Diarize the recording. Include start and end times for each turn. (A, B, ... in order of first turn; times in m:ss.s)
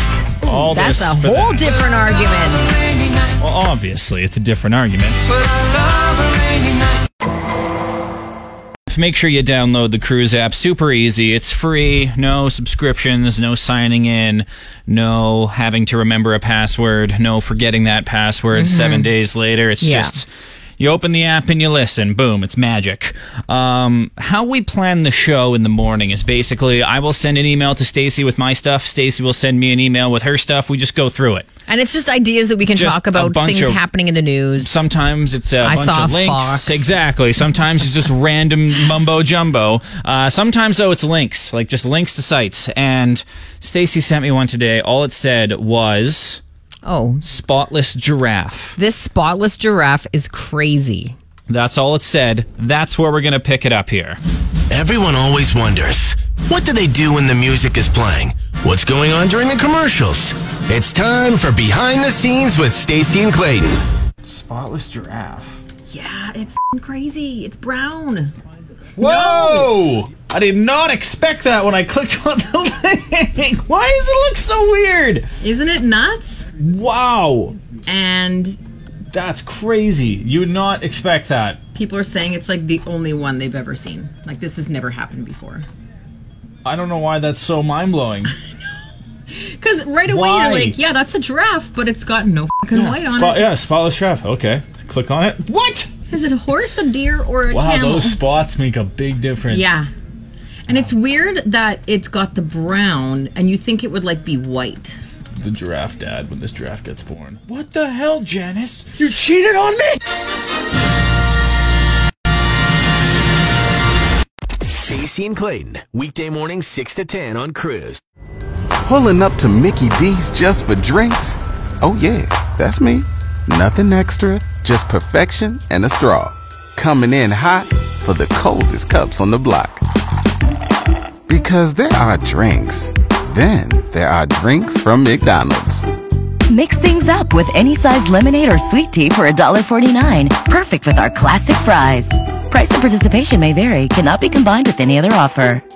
0:00.4-0:01.8 A
0:00.4-0:02.7 B
0:03.4-0:05.3 A
0:08.9-0:20.3 A
0:18.5-0:19.1 B
0:19.8-0:20.1 B
0:20.8-0:31.5 A
0:31.7-0:34.8 B
0:32.7-0:33.8 A
0:34.6-0:46.4 A
0:35.6-0:36.8 B
0:46.8-0:47.2 B
0:47.2-0:48.8 A
0:48.8-0:51.1 B
0:51.5-0:54.2 A
0:54.7-1:03.8 C
1:04.2-1:05.6 A
1:05.9-1:08.3 B
1:09.0-1:15.3 A
1:09.0-1:09.7 B
1:15.4-1:16.5 B
1:16.6-1:17.6 A
1:17.8-1:18.6 B
1:19.1-1:21.6 A
1:21.7-1:25.6 B
1:26.6-1:28.3 A
1:29.3-1:33.5 B
1:30.0-1:30.8 A
1:32.7-1:35.9 A
1:36.0-1:38.2 B
1:37.5-1:39.8 A
1:39.5-1:39.9 B
1:40.7-1:44.9 B
1:45.4-1:50.0 A
1:54.9-1:58.0 C
1:58.8-2:09.8 D
2:11.3-2:15.8 D
2:16.5-2:25.6 E